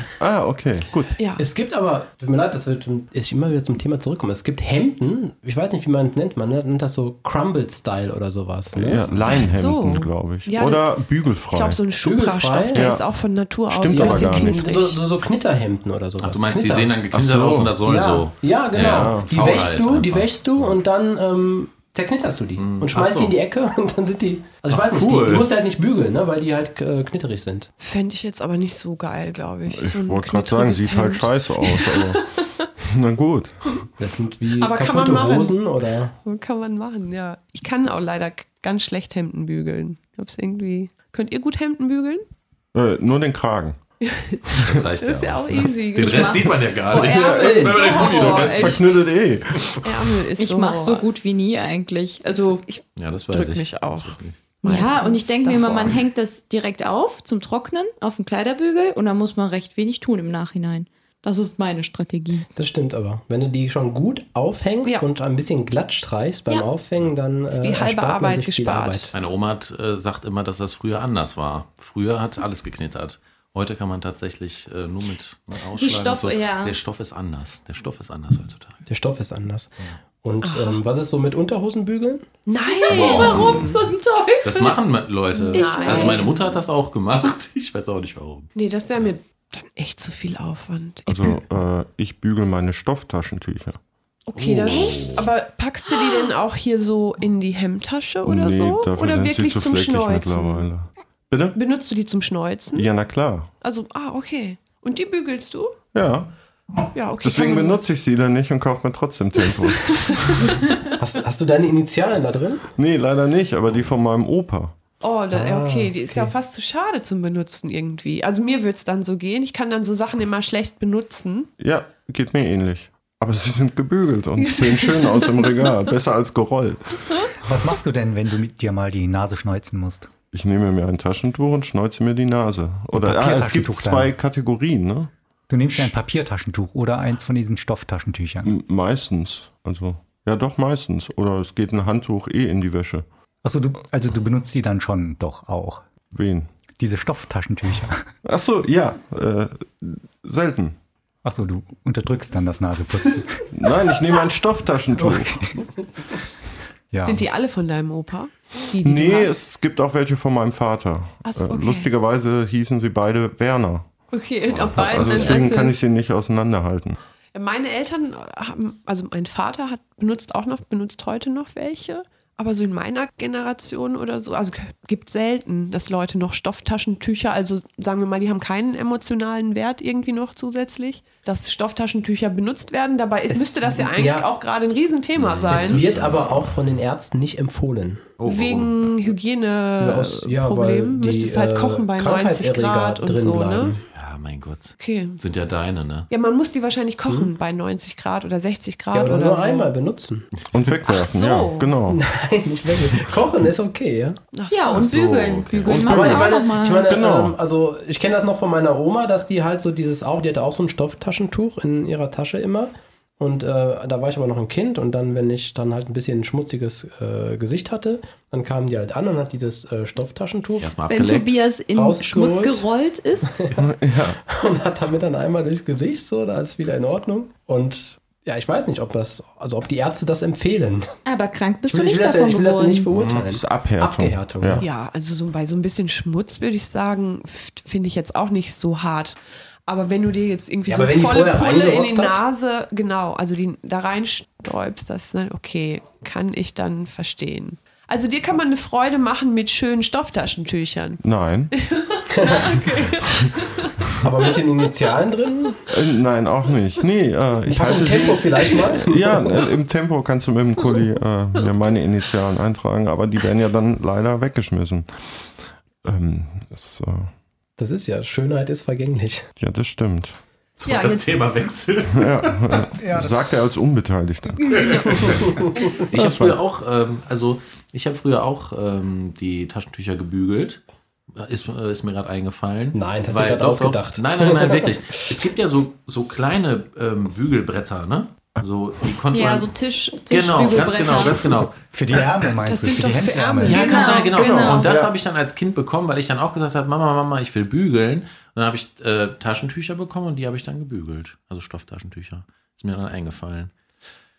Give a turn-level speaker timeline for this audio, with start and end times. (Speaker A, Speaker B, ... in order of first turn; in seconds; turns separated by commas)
Speaker A: 0.2-1.2, Speaker B: 1.2-1.4, Speaker C: 1.4-9.1, Speaker A: 8.7-11.8, Speaker B: 9.2-10.8, Speaker B: 11.5-15.0, Speaker C: 12.0-12.9, Speaker A: 12.7-13.1, Speaker A: 13.7-14.6, Speaker C: 13.9-17.0, Speaker D: 16.2-20.8, Speaker A: 17.1-17.8, Speaker C: 17.8-27.7, Speaker A: 18.8-19.6, Speaker D: 22.6-23.4, Speaker D: 24.7-25.5, Speaker B: 27.8-32.7, Speaker A: 29.7-32.2, Speaker A: 32.8-33.8, Speaker C: 34.0-36.1, Speaker B: 34.6-35.6, Speaker B: 36.2-42.3, Speaker A: 42.7-43.8, Speaker B: 44.0-49.0, Speaker D: 44.6-48.8, Speaker E: 46.0-46.5, Speaker C: 47.1-47.9, Speaker A: 47.1-50.1, Speaker B: 49.8-51.1, Speaker E: 50.4-52.6, Speaker B: 52.4-56.0, Speaker D: 53.0-54.4, Speaker E: 54.6-62.5, Speaker C: 62.6-69.1, Speaker B: 67.5-69.1, Speaker D: 69.1-78.8, Speaker E: 75.8-76.8, Speaker C: 78.9-82.3, Speaker B: 80.4-80.8, Speaker B: 82.5-83.8, Speaker E: 82.8-84.8, Speaker D: 82.9-83.7, Speaker D: 84.4-88.5, Speaker E: 85.5-86.3, Speaker B: 85.5-86.3, Speaker B: 88.6-91.4, Speaker A: 91.1-93.8, Speaker B: 94.3-100.7, Speaker D: 94.4-95.3, Speaker E: 94.7-95.3, Speaker E: 96.0-96.2, Speaker A: 98.2-101.6, Speaker B: 101.5-102.9, Speaker A: 102.7-103.5, Speaker B: 103.6-105.8, Speaker A: 105.9-106.3, Speaker B: 106.9-107.8, Speaker A: 107.2-110.5, Speaker B: 109.4-110.5, Speaker C: 111.0-112.7, Speaker A: 112.8-114.8, Speaker B: 115.0-121.5, Speaker C: 115.3-116.3, Speaker A: 121.6-127.2, Speaker B: 124.4-125.8, Speaker F: 127.4-130.1, Speaker A: 130.3-135.1, Speaker F: 132.9-134.1, Speaker F: 135.5-138.6, Speaker A: 138.4-143.1, Speaker F: 143.4-145.8, Speaker A: 146.1-146.5, Speaker F: 146.8-148.1, Speaker A: 148.2-150.8, Speaker F: 151.2-153.5, Speaker A: 153.5-155.4, Speaker F: 155.0-155.7, Speaker F: 156.9-157.2, Speaker B: 157.0-159.4, Speaker A: 158.8-163.9, Speaker B: 161.2-161.9, Speaker B: 164.1-165.8, Speaker D: 164.5-165.4, Speaker A: 164.7-167.0, Speaker B: 167.3-185.8, Speaker C: 183.3-184.3, Speaker D: 185.2-186.7, Speaker C: 185.5-188.1, Speaker D: 188.2-188.9, Speaker B: 188.3-193.8, Speaker C: 189.8-193.8, Speaker D: 193.9-196.1, Speaker B: 194.8-195.2, Speaker B: 196.1-199.7, Speaker C: 198.9-200.3, Speaker A: 200.5-202.0, Speaker B: 200.9-201.8, Speaker C: 201.9-204.2, Speaker B: 204.3-205.0, Speaker E: 204.5-207.0, Speaker D: 204.8-206.2, Speaker A: 205.7-206.1, Speaker C: 205.7-220.8, Speaker A: 206.9-207.4, Speaker D: 220.6-221.3, Speaker E: 220.9-223.4, Speaker C: 221.7-222.7, Speaker A: 223.6-224.2, Speaker C: 224.2-231.0, Speaker E: 231.1-232.9, Speaker C: 231.6-234.7, Speaker A: 233.0-234.6, Speaker B: 234.6-251.0, Speaker C: 240.7-242.2, Speaker A: 251.0-251.5, Speaker B: 251.7-254.0, Speaker C: 252.2-252.5, Speaker C: 254.0-255.7, Speaker A: 255.7-265.3, Speaker C: 257.5-259.5, Speaker A: 265.8-267.1, Speaker C: 267.6-269.2, Speaker A: 269.4-270.2, Speaker D: 270.6-272.8, Speaker A: 271.9-275.2, Speaker D: 274.5-280.6, Speaker B: 274.5-275.1, Speaker C: 275.1-275.6, Speaker A: 275.9-276.4, Speaker D: 281.1-289.6, Speaker C: 282.7-285.2, Speaker E: 289.1-291.4, Speaker D: 290.1-291.6, Speaker F: 291.7-293.8, Speaker B: 292.4-294.6, Speaker E: 293.5-294.7, Speaker D: 293.5-303.5, Speaker A: 294.6-294.9